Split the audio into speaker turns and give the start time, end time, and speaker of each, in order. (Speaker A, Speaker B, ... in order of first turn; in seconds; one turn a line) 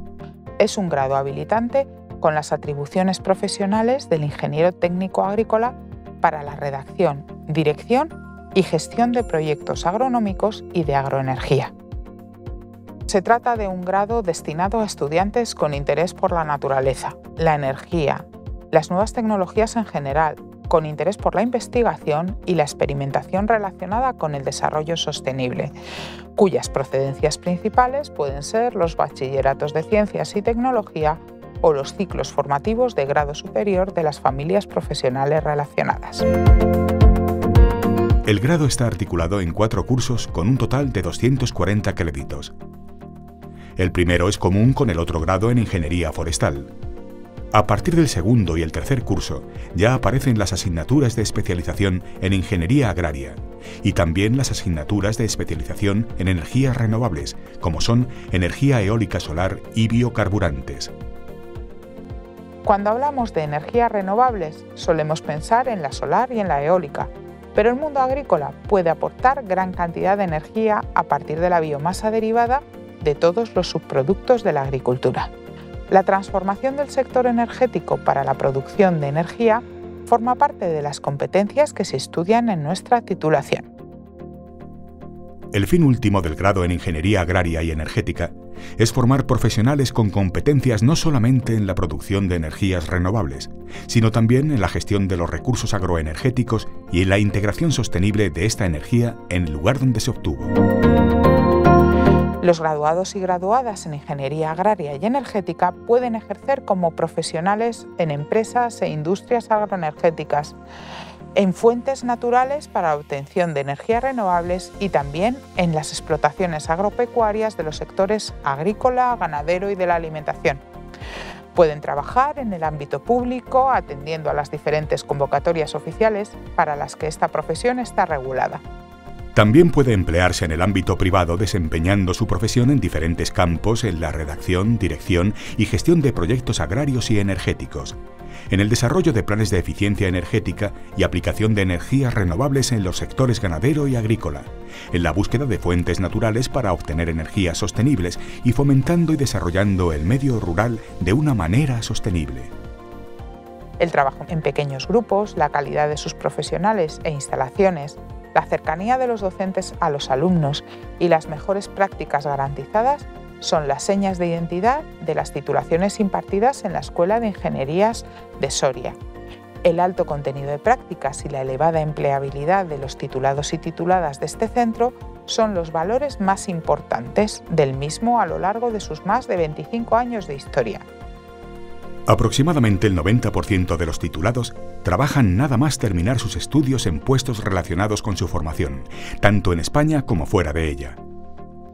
Speaker A: 0.6-11.7
Speaker A: 13.1-25.7
Speaker A: 26.4-36.3
Speaker B: 38.2-42.5
Speaker B: 43.8-46.7
Speaker B: 47.5-60.9
Speaker A: 62.6-75.3
Speaker A: 75.9-83.7
Speaker B: 85.5-100.6
Speaker A: 102.4-110.6
Speaker A: 111.3-120.6
Speaker A: 121.5-128.6
Speaker B: 129.3-138.0
Speaker B: 138.5-152.5
Speaker A: 153.8-169.0
Speaker A: 169.6-180.8
Speaker B: 182.1-191.0